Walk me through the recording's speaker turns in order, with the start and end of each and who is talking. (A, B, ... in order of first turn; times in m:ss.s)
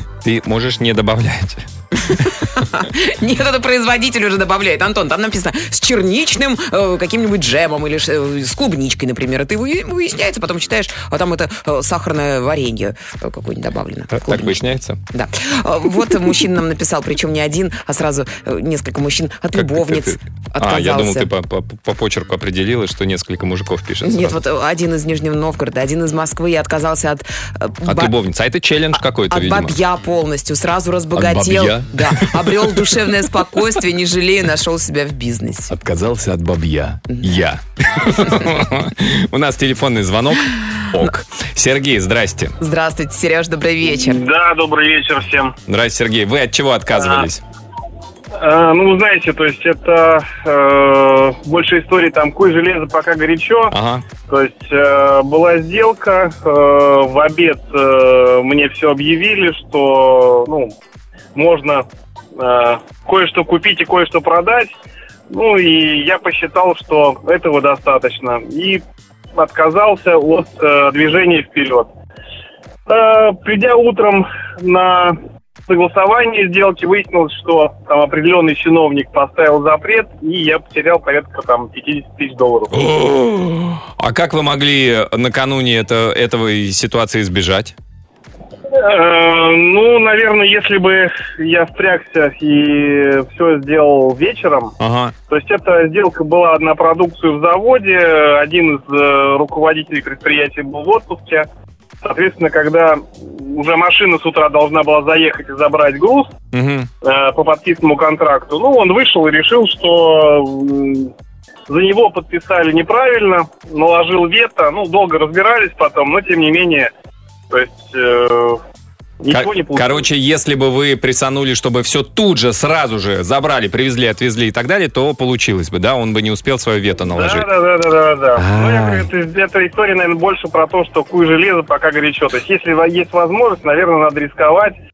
0:00.2-0:02.3 A
0:02.1-0:21.3 B
0:14.1-0:15.0 A
0:19.5-0:24.4 A
0:24.0-0:28.1 B
0:27.8-0:29.8 A
0:29.3-0:35.7 B
0:31.1-0:33.1 A
0:35.7-0:42.6 A
0:42.6-0:44.2 B
0:43.8-0:45.5 C
0:45.7-0:47.4 A
0:48.4-0:53.7 C
0:53.7-0:54.0 A
0:54.3-1:00.7 C
1:01.3-1:01.8 C
1:02.4-1:04.7 C
1:05.3-1:08.8 C
1:09.4-1:11.9 C
1:12.9-1:22.7 C
1:22.7-1:27.8 A
1:28.7-1:34.7 C
1:34.8-1:35.1 A
1:35.3-1:41.5 C
1:42.0-1:46.3 C
1:46.5-1:46.9 A
1:47.0-1:51.1 C
1:51.7-1:56.9 C
1:57.5-1:58.6 C
1:59.2-2:00.0 C
1:59.3-2:07.5 A
2:07.1-2:14.8 C
2:08.4-2:09.1 A